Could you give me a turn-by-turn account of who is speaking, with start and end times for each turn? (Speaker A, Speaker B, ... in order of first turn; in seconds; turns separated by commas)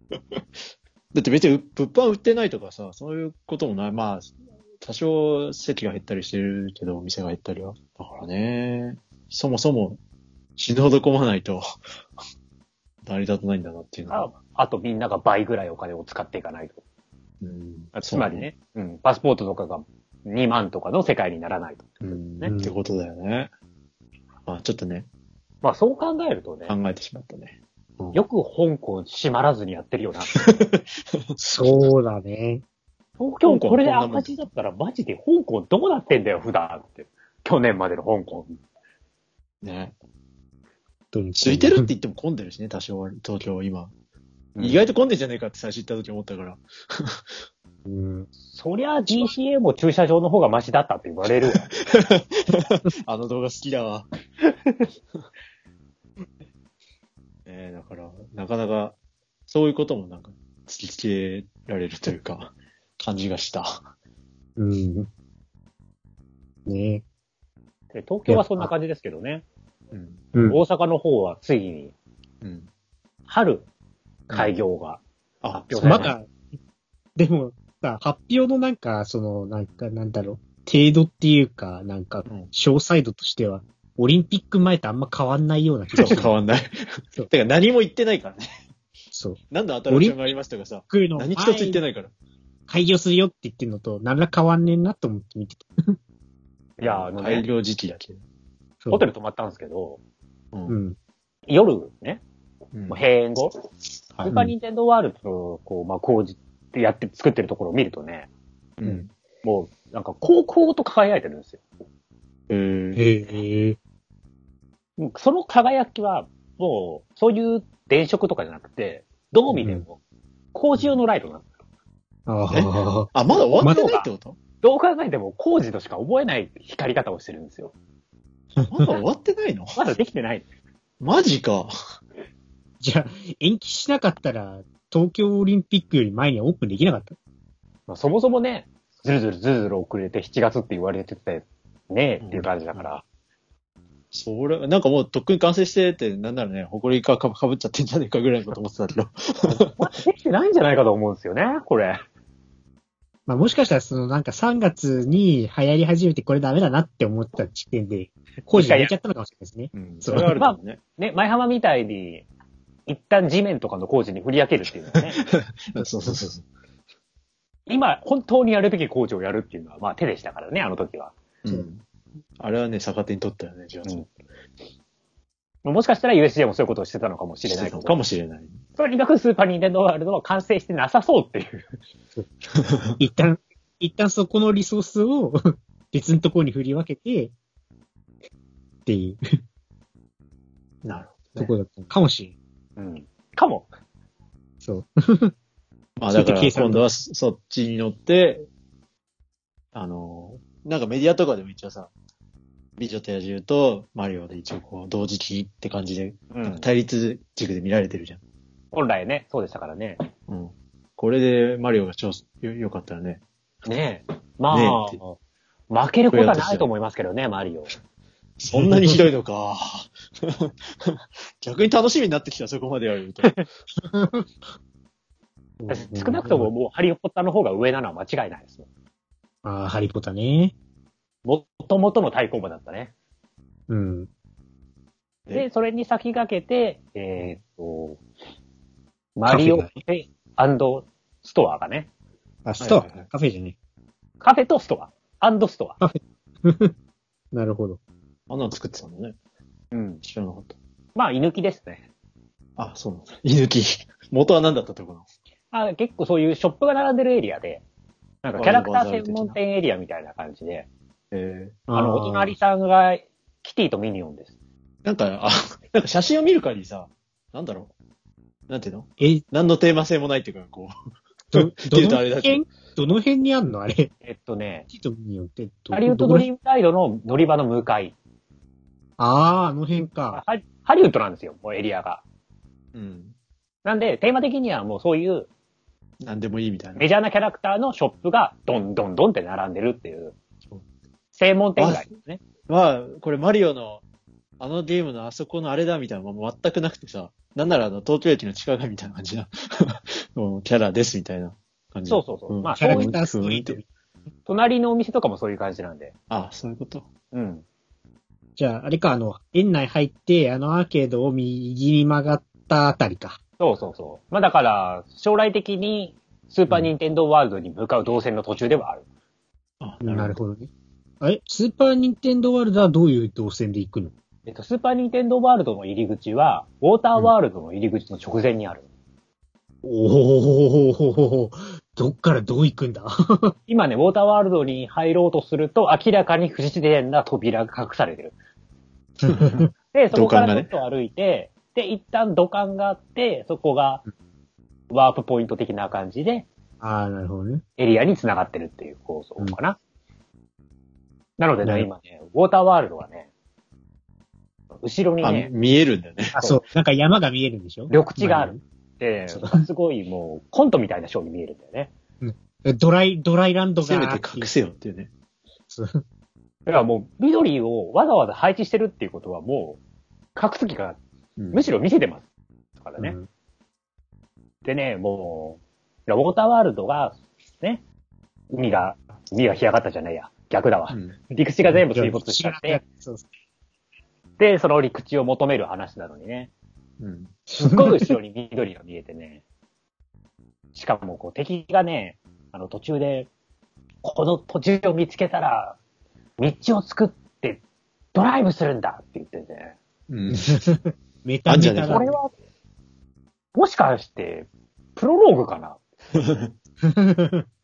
Speaker A: 1.1-10.0, Speaker A: 10.6-11.6, Speaker A: 13.0-14.3, Speaker B: 14.1-16.8, Speaker A: 17.4-18.5, Speaker B: 17.9-22.5, Speaker A: 22.0-23.5, Speaker C: 22.4-22.7, Speaker A: 24.4-25.1, Speaker B: 25.6-26.7, Speaker A: 26.7-28.2, Speaker B: 28.1-30.3, Speaker A: 30.3-30.8, Speaker A: 31.4-31.8, Speaker C: 31.4-32.6, Speaker B: 33.2-38.5, Speaker A: 33.5-34.3, Speaker A: 39.6-39.9, Speaker C: 41.1-41.9, Speaker A: 41.4-43.9, Speaker B: 44.5-44.8, Speaker A: 44.6-47.2, Speaker C: 47.9-48.3, Speaker B: 48.5-51.7, Speaker A: 51.5-54.1, Speaker A: 57.5-59.0, Speaker A: 59.5-63.9, Speaker C: 64.6-65.1, Speaker C: 66.7-67.0, Speaker B: 67.9-69.4, Speaker C: 68.3-68.7, Speaker A: 69.9-70.2, Speaker C: 70.3-70.6, Speaker B: 70.4-71.9, Speaker A: 72.4-72.7, Speaker B: 73.3-73.7, Speaker B: 74.3-75.0, Speaker A: 75.4-76.1, Speaker B: 75.6-76.1, Speaker C: 75.8-76.3, Speaker C: 77.2-86.3, Speaker A: 82.3-82.5, Speaker A: 86.0-88.5, Speaker C: 89.1-90.2, Speaker A: 89.5-92.1, Speaker C: 90.9-91.8, Speaker C: 92.7-96.0, Speaker B: 96.8-97.4, Speaker A: 96.8-98.2, Speaker C: 98.8-99.1, Speaker B: 98.9-100.0, Speaker C: 100.7-101.0, Speaker B: 101.5-102.2, Speaker A: 102.7-103.0, Speaker B: 102.9-103.5, Speaker B: 104.3-108.3, Speaker C: 104.3-104.5, Speaker A: 108.8-109.1, Speaker B: 109.4-111.6, Speaker A: 112.5-113.0, Speaker C: 113.0-113.8, Speaker B: 115.0-120.0, Speaker C: 119.6-119.8, Speaker B: 120.5-121.4, Speaker C: 122.3-123.8, Speaker A: 122.5-124.4, Speaker B: 123.6-124.1, Speaker B: 124.6-127.7, Speaker A: 128.7-129.8, Speaker B: 129.8-130.4, Speaker A: 131.0-131.7, Speaker C: 132.8-137.2, Speaker B: 137.9-143.0, Speaker A: 142.2-142.9, Speaker A: 144.1-149.6, Speaker B: 149.4-152.0, Speaker C: 153.3-160.3, Speaker B: 158.5-158.9, Speaker A: 159.7-160.8, Speaker B: 160.3-162.2, Speaker B: 162.9-165.2, Speaker A: 165.2-166.4, Speaker C: 165.8-166.2, Speaker B: 167.7-171.1, Speaker A: 171.4-171.8, Speaker A: 172.4-174.1, Speaker B: 175.6-178.0, Speaker A: 177.4-178.6, Speaker B: 178.8-181.7, Speaker A: 182.5-182.9, Speaker C: 183.0-185.4, Speaker C: 185.9-187.3, Speaker C: 188.8-189.2, Speaker A: 190.8-191.5, Speaker C: 191.4-192.3, Speaker B: 192.8-193.7, Speaker C: 194.6-195.3, Speaker A: 196.0-198.4, Speaker C: 196.1-196.8, Speaker A: 199.7-201.9, Speaker A: 202.8-208.2, Speaker B: 206.3-206.7, Speaker B: 208.7-210.0, Speaker A: 210.3-213.2, Speaker B: 213.6-215.2, Speaker A: 214.5-215.0, Speaker B: 215.7-217.7, Speaker A: 216.1-216.7, Speaker A: 218.4-223.4, Speaker C: 218.5-219.0, Speaker C: 223.9-224.3, Speaker C: 225.6-226.5, Speaker B: 225.7-228.7, Speaker C: 229.4-230.5, Speaker B: 231.2-232.9, Speaker C: 233.7-234.1, Speaker B: 235.3-238.0, Speaker B: 239.2-241.9, Speaker C: 239.3-239.7, Speaker C: 242.4-243.6, Speaker A: 242.6-243.1, Speaker B: 244.2-245.8, Speaker C: 245.8-246.7, Speaker C: 247.3-247.8, Speaker A: 248.3-249.1, Speaker B: 249.7-250.0, Speaker A: 250.0-250.6, Speaker B: 250.9-251.8, Speaker A: 252.6-255.1, Speaker B: 255.5-257.6, Speaker B: 258.2-260.7, Speaker A: 258.4-259.4, Speaker A: 261.1-261.6, Speaker C: 261.7-262.4, Speaker B: 261.7-264.3, Speaker A: 264.8-267.7, Speaker A: 268.5-270.7, Speaker C: 269.0-269.2, Speaker A: 271.3-272.4, Speaker C: 271.3-273.9, Speaker B: 274.0-274.7, Speaker C: 274.7-276.3, Speaker B: 275.7-277.9, Speaker C: 279.0-280.2, Speaker B: 280.1-282.0, Speaker A: 282.7-283.1, Speaker B: 283.6-285.3, Speaker A: 286.0-286.9, Speaker B: 286.8-290.1, Speaker B: 291.1-292.2, Speaker A: 291.6-291.9, Speaker A: 292.5-293.8, Speaker A: 294.4-303.6, Speaker B: 301.9-303.0, Speaker C: 302.6-303.6, Speaker B: 304.3-305.9, Speaker A: 306.1-306.9, Speaker B: 307.1-307.4, Speaker C: 308.4-313.2, Speaker B: 313.4-318.8, Speaker A: 319.6-320.2, Speaker C: 319.8-320.5, Speaker C: 321.0-323.9, Speaker B: 324.2-328.7, Speaker C: 329.6-333.3, Speaker B: 333.5-338.1, Speaker C: 339.0-339.5, Speaker A: 339.1-340.5, Speaker B: 339.7-343.8, Speaker B: 344.7-346.3, Speaker C: 346.6-347.4, Speaker B: 347.6-349.6, Speaker B: 351.2-353.1, Speaker C: 351.4-351.7, Speaker B: 354.6-355.3, Speaker A: 355.0-356.1, Speaker C: 356.1-358.4, Speaker B: 356.1-356.4, Speaker B: 357.7-361.7, Speaker C: 359.1-359.4, Speaker C: 362.0-364.3, Speaker A: 363.6-364.9, Speaker C: 365.5-365.8, Speaker B: 366.4-369.6, Speaker B: 370.1-370.8, Speaker A: 371.2-371.4, Speaker B: 371.3-372.1, Speaker B: 372.6-373.0, Speaker C: 372.8-373.1, Speaker B: 374.4-377.6, Speaker B: 378.3-382.6, Speaker A: 380.7-381.0, Speaker C: 381.5-383.1, Speaker B: 384.2-386.3, Speaker A: 386.8-387.1, Speaker C: 387.3-387.9, Speaker B: 387.4-389.2, Speaker B: 390.5-393.1, Speaker B: 393.8-395.6, Speaker B: 396.2-397.4, Speaker B: 397.9-399.6, Speaker A: 399.9-400.4, Speaker C: 400.2-401.9, Speaker A: 401.3-401.9, Speaker B: 401.7-402.1, Speaker B: 403.3-405.6, Speaker A: 405.9-406.3, Speaker C: 406.6-407.2